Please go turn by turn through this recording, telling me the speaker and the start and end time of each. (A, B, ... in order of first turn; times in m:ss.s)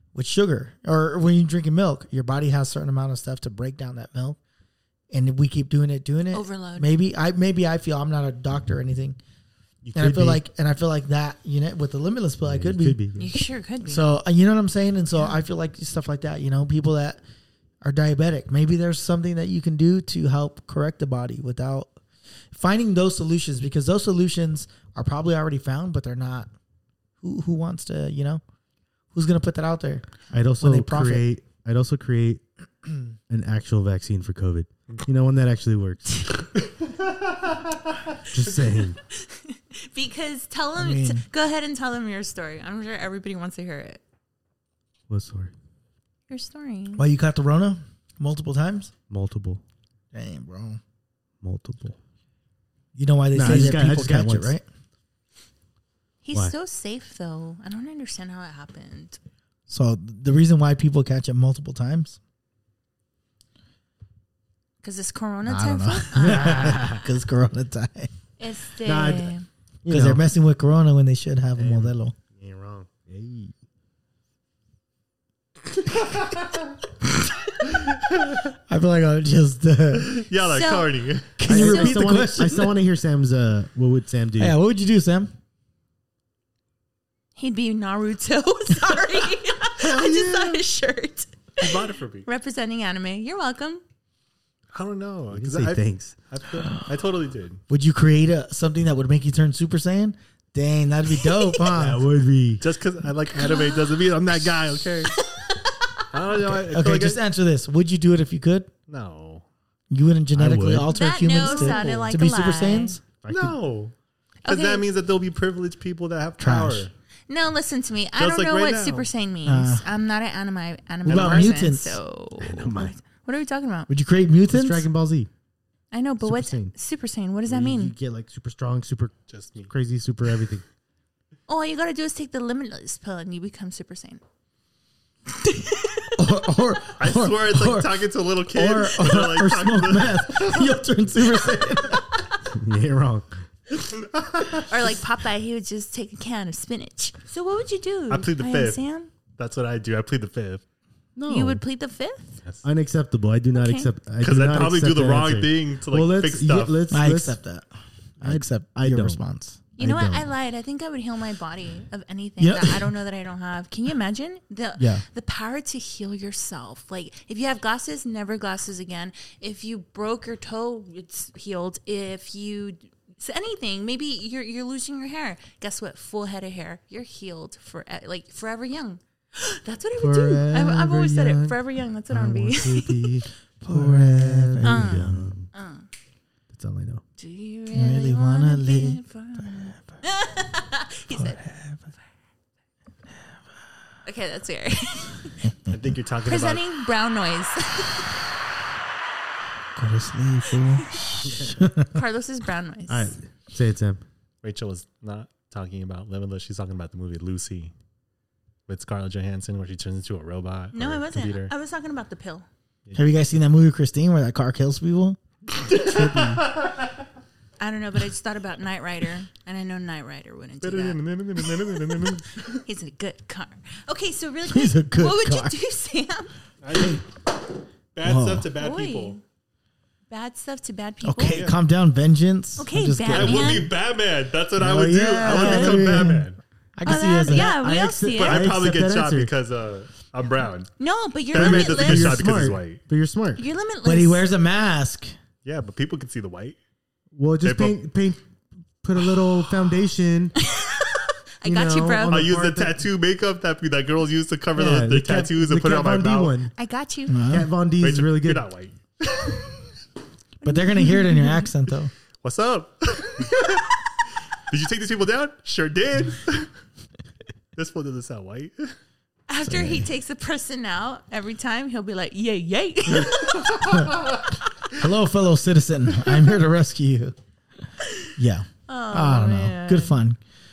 0:00.1-0:04.4 A
0:05.1-0:09.2 A
0:06.3-0:06.9 B
0:09.8-0:10.4 C
0:10.0-0:13.0 A
0:12.4-0:13.4 C
0:13.2-0:14.1 B
0:13.8-0:17.2 A
0:17.8-0:21.9 A
0:22.5-0:26.5 A
0:27.2-0:28.4 A
0:29.1-0:30.0 A
0:30.3-0:32.4 C
0:30.6-0:31.2 A
0:33.3-0:36.4 C
0:36.8-0:38.8 D
0:38.3-0:39.0 C
0:39.1-0:44.0 B
0:40.8-0:41.2 A
0:45.1-0:45.5 C
0:46.3-0:47.0 B
0:47.0-0:48.9 A
0:49.1-0:49.6 C
0:50.1-0:50.8 A
0:51.4-0:52.0 C
0:52.9-0:54.6 A
0:53.3-0:54.6 C
0:56.2-0:59.2 B
0:59.7-1:02.2 A
1:04.8-1:06.8 B
1:05.4-1:08.1 A
1:06.2-1:07.0 C
1:08.4-1:09.4 B
1:08.8-1:10.2 C
1:09.9-1:12.1 A
1:11.6-1:13.5 C
1:18.7-1:20.2 A
1:20.0-1:21.4 D
1:20.4-1:22.0 B
1:21.4-1:22.8 A
1:21.4-1:24.6 C
1:24.4-1:25.3 A
1:27.4-1:33.8 B
1:29.8-1:30.6 C
1:31.6-1:32.3 D
1:34.7-1:37.6 D
1:35.3-1:36.1 C
1:37.7-1:42.0 A
1:41.7-1:42.6 C
1:42.6-1:45.2 D
1:43.4-1:44.0 B
1:45.2-1:46.0 B
1:46.1-1:47.2 D
1:46.4-1:48.7 A
1:48.9-1:49.4 D
1:49.9-1:53.0 A
1:50.3-1:50.9 C
1:50.9-1:53.0 B
1:51.4-1:52.1 D
1:53.2-1:53.6 C
1:53.3-1:53.9 D
1:54.4-1:54.9 B
1:54.4-1:56.9 D
1:56.4-1:56.9 A
1:57.3-2:03.9 B
1:58.2-1:59.1 D
1:59.4-1:59.9 A
2:01.0-2:01.5 D
2:01.0-2:02.0 A
2:02.4-2:03.0 C
2:03.9-2:04.9 A
2:04.5-2:05.3 C
2:05.9-2:07.9 B
2:06.2-2:06.7 C
2:07.5-2:09.1 C
2:09.3-2:09.7 D
2:09.6-2:10.6 C
2:11.5-2:14.2 B
2:15.3-2:16.1 B
2:16.2-2:22.1 A
2:17.0-2:20.9 D
2:22.5-2:23.4 C
2:23.7-2:24.7 D
2:24.6-2:29.1 B
2:28.1-2:28.8 D
2:29.4-2:30.6 D
2:31.2-2:31.6 C
2:31.3-2:32.4 B
2:32.6-2:37.4 C
2:33.5-2:33.9 B
2:34.2-2:36.8 D
2:36.9-2:37.7 A
2:38.2-2:39.6 A
2:38.2-2:39.2 C
2:39.8-3:03.1 B
2:39.8-2:40.3 C
2:42.4-2:42.9 A
2:44.8-2:45.0 A
3:00.0-3:05.5 C
3:03.6-3:05.3 A
3:04.6-3:05.9 B
3:06.5-3:07.0 C
3:07.2-3:11.5 B
3:07.7-3:09.8 A
3:11.1-3:11.9 A
3:14.0-3:15.5 B
3:15.7-3:16.6 D
3:16.2-3:18.1 B
3:19.8-3:22.0 A
3:21.2-3:21.7 C
3:21.9-3:23.1 B
3:22.9-3:24.0 C
3:24.4-3:27.7 D
3:28.7-3:31.5 D
3:30.7-3:32.5 B
3:33.0-3:36.4 A
3:35.8-3:36.8 D
3:37.6-3:41.0 B
3:40.6-3:42.6 D
3:42.6-3:46.3 B
3:44.4-3:45.6 A
3:46.6-3:47.1 D
3:48.0-3:49.2 D
3:48.0-3:48.5 A
3:48.6-3:49.2 B
3:50.1-3:51.4 B
3:51.0-3:53.7 A
3:52.6-3:53.7 B
3:53.1-3:56.4 D
3:54.6-3:56.1 C
3:54.7-3:57.6 A
3:55.3-3:55.7 B
3:56.8-3:58.5 B
3:57.3-3:59.3 C
3:58.0-4:00.7 D
4:00.8-4:02.3 B
4:01.3-4:02.8 D
4:01.3-4:03.4 C
4:03.4-4:04.3 B
4:03.8-4:05.1 A
4:05.4-4:06.6 D
4:07.1-4:08.2 C
4:07.4-4:07.8 D
4:08.8-4:10.4 C
4:10.4-4:12.3 B
4:11.4-4:12.9 C
4:12.1-4:16.4 D
4:14.6-4:16.5 C
4:16.6-4:17.2 B
4:17.1-4:17.5 A
4:17.3-4:18.4 C
4:17.8-4:19.5 D
4:20.4-4:21.9 A
4:20.4-4:21.4 B
4:22.2-4:23.8 D
4:24.4-4:26.5 D
4:27.6-4:28.7 D
4:29.3-4:33.8 B
4:29.4-4:29.9 A
4:33.1-4:33.9 D
4:33.7-4:34.0 A
4:34.7-4:37.1 A
4:38.2-4:40.2 A
4:38.7-4:40.0 B